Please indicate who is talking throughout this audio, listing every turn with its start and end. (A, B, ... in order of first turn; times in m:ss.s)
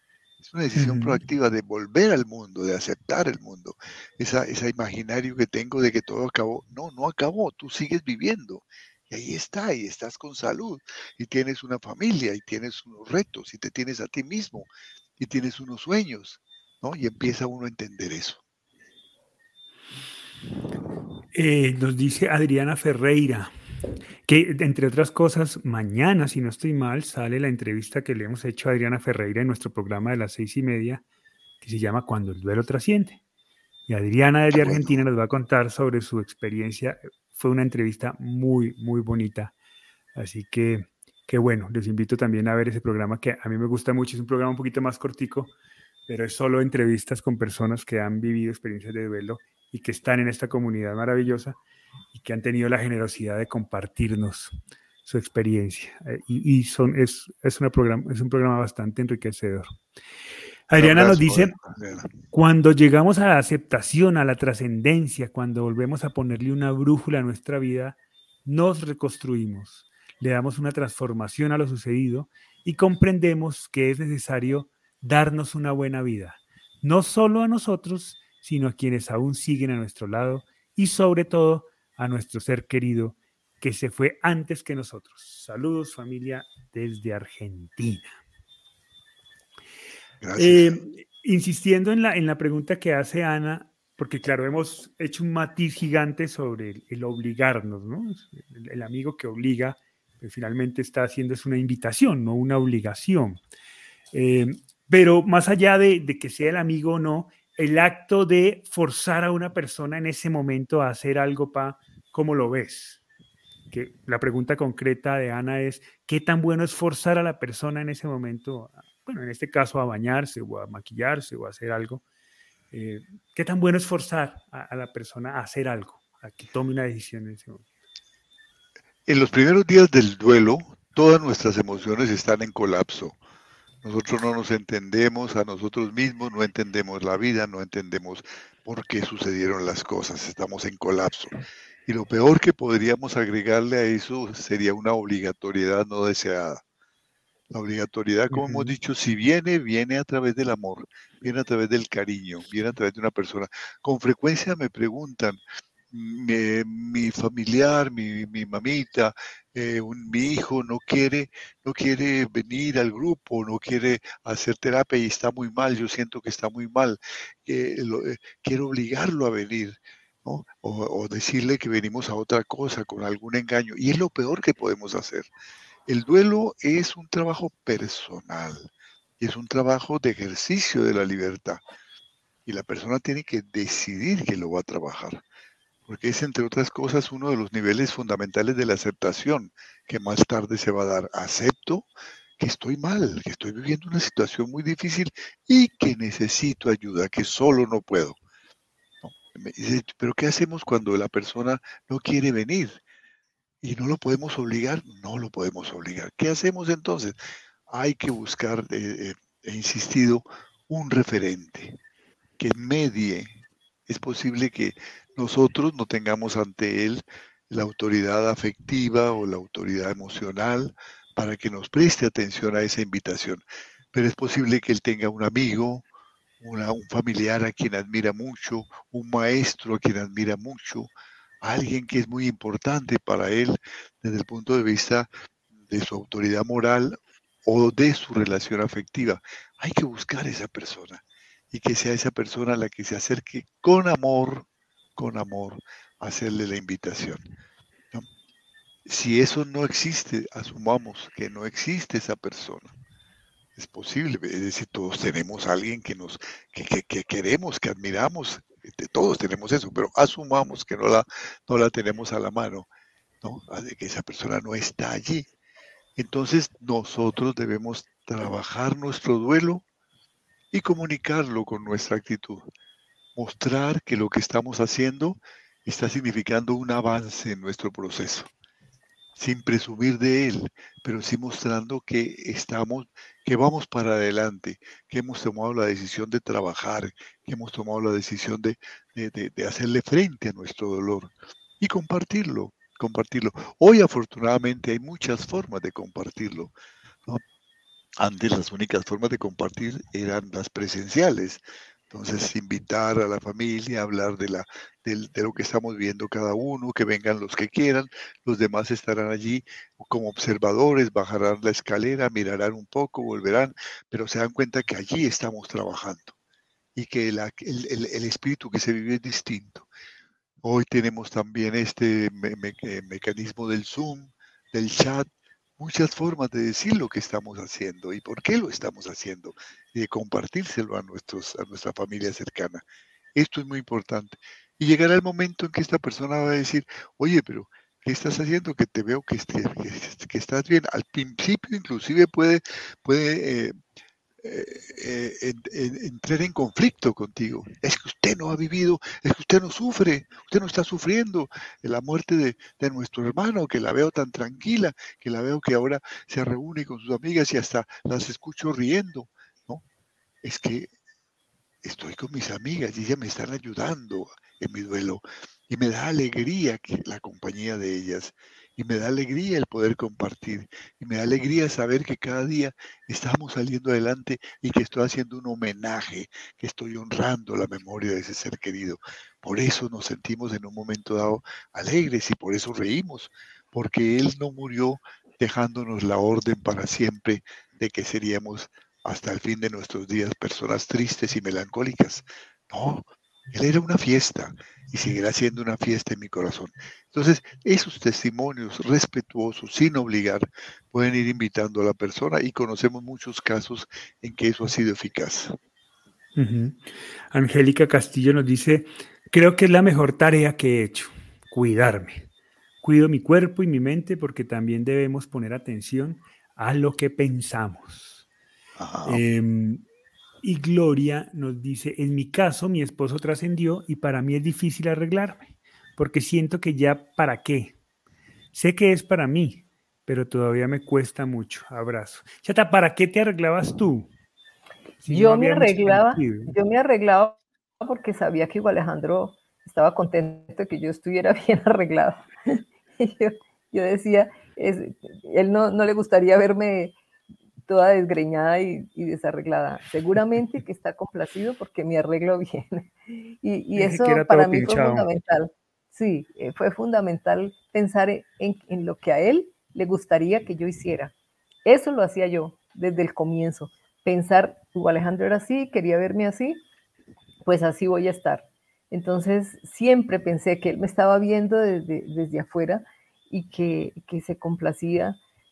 0:00.4-0:18.4 A
0:00.7-0:01.2 B
0:21.3-0:23.5 B
0:24.2-0:31.0 B
0:31.6-0:33.2 B
0:33.9-0:39.5 B
0:34.5-0:35.0 A
0:40.1-0:45.5 B
0:46.1-0:51.6 B
0:52.1-0:54.5 B
0:55.0-0:59.8 B
1:00.7-1:01.5 B
1:00.8-1:02.1 A
1:02.3-1:28.2 B
1:30.2-1:30.8 A
1:30.4-1:43.4 B
1:44.1-1:53.0 B
1:53.7-2:02.0 B
2:02.7-2:07.6 B
2:09.0-2:13.2 A
2:13.8-2:21.3 A
2:21.8-2:26.6 A
2:27.5-2:55.3 A
2:28.3-2:28.7 B
2:55.9-3:01.6 A
3:02.4-3:05.2 A
3:05.9-3:18.2 A
3:19.0-3:22.8 A
3:23.6-3:27.1 A
3:27.7-3:31.8 A
3:32.4-3:45.9 A
3:46.4-3:55.1 A
3:55.7-4:07.2 A
4:08.8-4:12.7 A
4:13.6-4:22.7 A
4:23.2-4:25.3 A
4:26.0-4:29.6 A
4:30.5-4:32.5 A
4:33.1-4:38.3 A
4:39.2-4:56.5 A
4:58.0-5:16.1 A
5:16.8-5:19.7 A
5:20.4-5:25.0 A
5:25.6-5:32.6 A
5:33.1-5:43.5 A
5:44.2-5:59.6 A
6:00.2-6:00.7 A
6:01.6-6:45.4 A
6:46.2-6:46.6 B
6:47.1-6:52.0 B
6:52.6-6:58.0 B
6:58.6-6:59.0 A
6:58.8-6:59.6 B
7:00.2-7:07.6 B
7:08.3-7:13.9 B
7:14.8-7:16.3 B
7:14.9-7:26.8 C
7:27.5-7:32.7 C
7:33.2-7:40.9 C
7:33.5-7:34.9 B
7:41.4-7:46.4 C
7:47.2-7:55.0 C